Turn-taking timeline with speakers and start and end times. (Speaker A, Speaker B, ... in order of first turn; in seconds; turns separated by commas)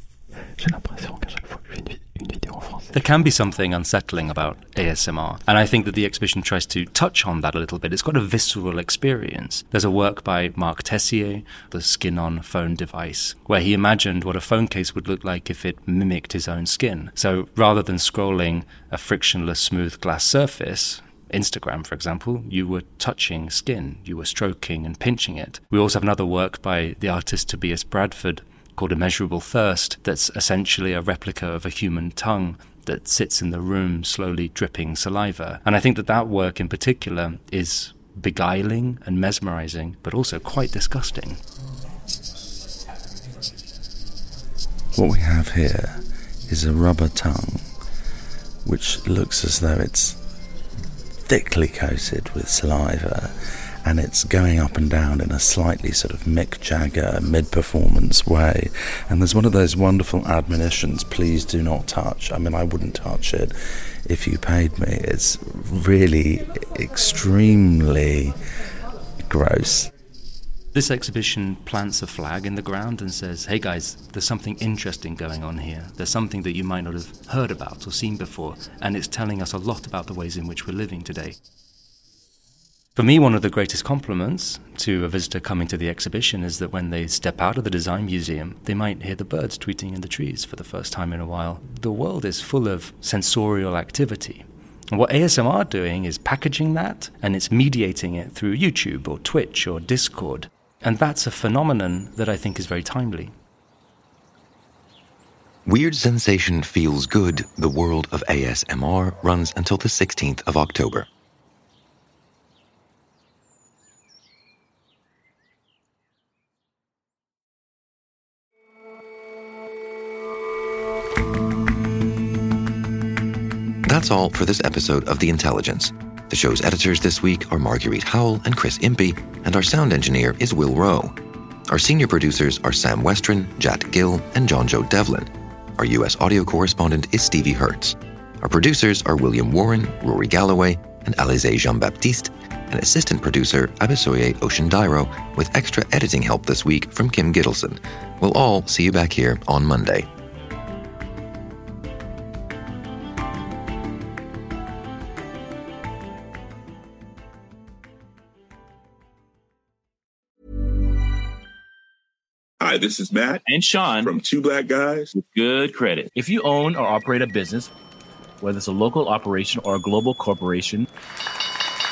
Speaker A: 0.6-3.0, Speaker B: 2.9-41.4, Speaker C: 45.0-47.6, Speaker C: 48.6-50.2, Speaker C: 51.3-68.4, Speaker C: 69.2-69.9, Speaker B: 70.7-81.4, Speaker B: 83.0-103.3, Speaker D: 105.7-111.1, Speaker D: 123.8-131.2, Speaker D: 131.7-150.1, Speaker E: 162.6-163.4, Speaker F: 163.5-164.2, Speaker E: 164.0-165.1, Speaker F: 165.1-167.7, Speaker F: 168.4-170.9